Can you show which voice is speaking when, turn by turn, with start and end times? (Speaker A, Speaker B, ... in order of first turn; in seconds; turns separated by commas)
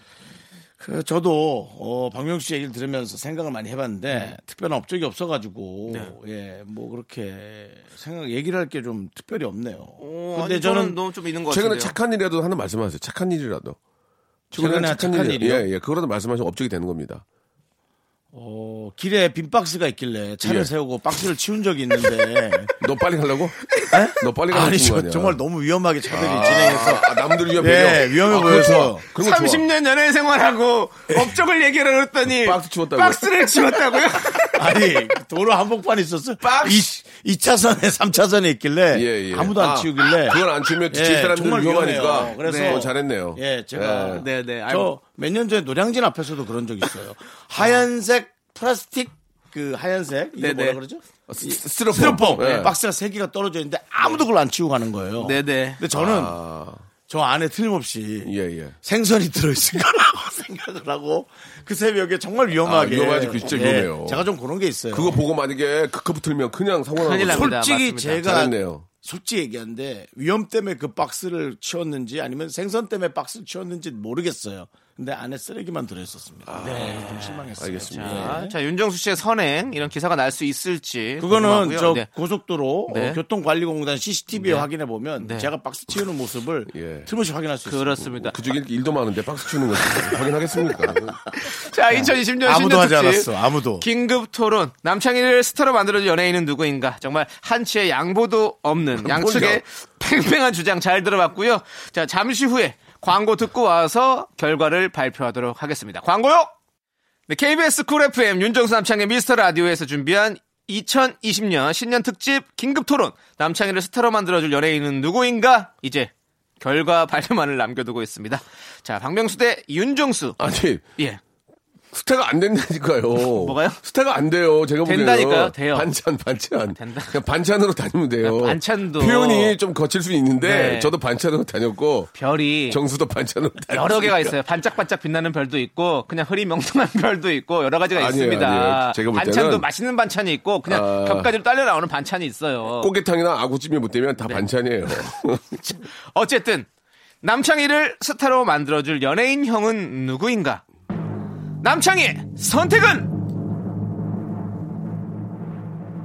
Speaker A: 0.8-11.0, Speaker B: 4.1-4.3, Speaker B: 5.9-6.1, Speaker B: 10.0-11.9, Speaker C: 11.5-13.8, Speaker C: 14.5-17.2, Speaker A: 14.5-15.7, Speaker A: 18.3-22.7, Speaker C: 20.4-20.7, Speaker C: 22.8-25.4, Speaker A: 23.9-29.0, Speaker C: 26.1-29.7, Speaker B: 29.2-34.8, Speaker C: 32.2-33.3, Speaker A: 34.6-56.4, Speaker C: 36.4-36.9, Speaker C: 38.9-44.2, Speaker B: 42.4-42.8, Speaker B: 44.2-44.9, Speaker B: 50.4-50.8, Speaker C: 51.3-52.7, Speaker B: 52.4-52.7, Speaker B: 55.2-55.8, Speaker C: 55.9-56.9, Speaker A: 57.1-58.3, Speaker C: 58.2-58.8, Speaker A: 58.8-65.2, Speaker C: 62.6-64.2, Speaker C: 64.9-67.6, Speaker B: 67.0-68.4, Speaker A: 67.2-78.5, Speaker C: 68.2-68.9, Speaker C: 76.5-78.4, Speaker B: 76.6-82.1, Speaker A: 81.2-88.0, Speaker B: 82.9-83.2, Speaker B: 84.3-84.7, Speaker B: 85.2-85.5, Speaker C: 86.7-87.1, Speaker B: 87.7-88.3, Speaker C: 88.0-91.2, Speaker B: 91.4-106.5, Speaker A: 91.9-93.9, Speaker C: 99.0-99.6, Speaker B: 107.3-120.4, Speaker C: 120.4-120.8, Speaker C: 121.9-134.3, Speaker B: 123.2-123.8, Speaker B: 124.8-125.9, Speaker B: 126.8-127.2, Speaker B: 128.2-129.6, Speaker B: 130.4-130.9, Speaker B: 132.2-132.8, Speaker B: 133.7-142.9, Speaker C: 137.9-139.7, Speaker C: 140.7-141.3, Speaker C: 142.7-145.6, Speaker B: 145.6-146.7, Speaker B: 147.2-150.6, Speaker B: 151.6-153.1